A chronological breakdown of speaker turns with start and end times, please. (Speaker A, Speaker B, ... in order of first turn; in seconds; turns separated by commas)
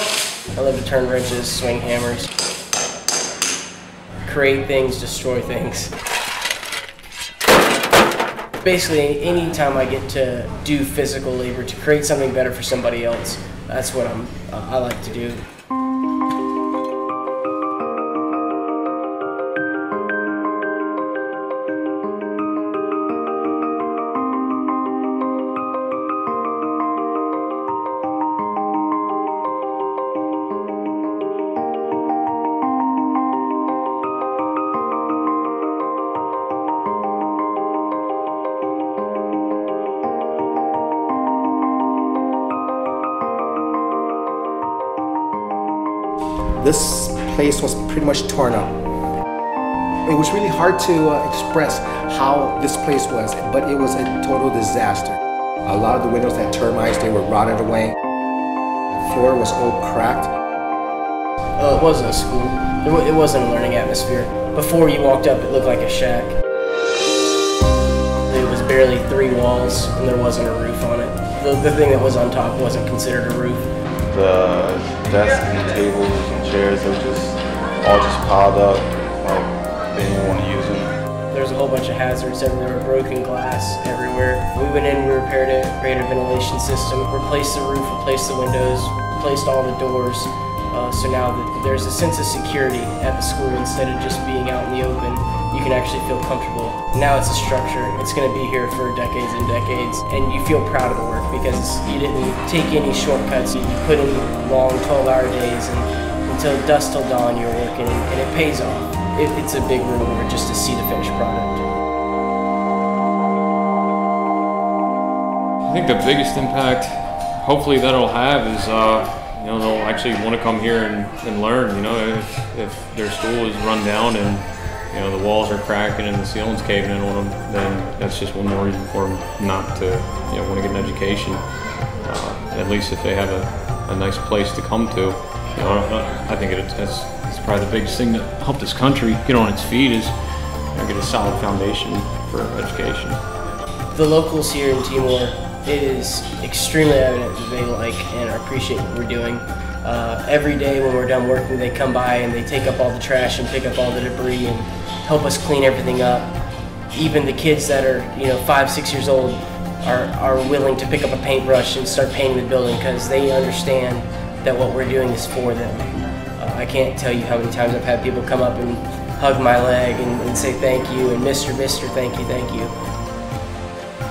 Speaker A: 0.5-2.3, Speaker A: 4.2-5.9, Speaker A: 8.6-15.4, Speaker B: 46.6-48.8, Speaker B: 50.0-57.9, Speaker B: 59.0-60.3, Speaker A: 61.6-66.3, Speaker A: 68.3-73.7, Speaker C: 74.1-80.9, Speaker A: 81.3-111.6, Speaker D: 115.7-131.4, Speaker D: 132.0-140.1, Speaker D: 140.7-143.2, Speaker A: 143.9-156.3, Speaker A: 156.9-172.7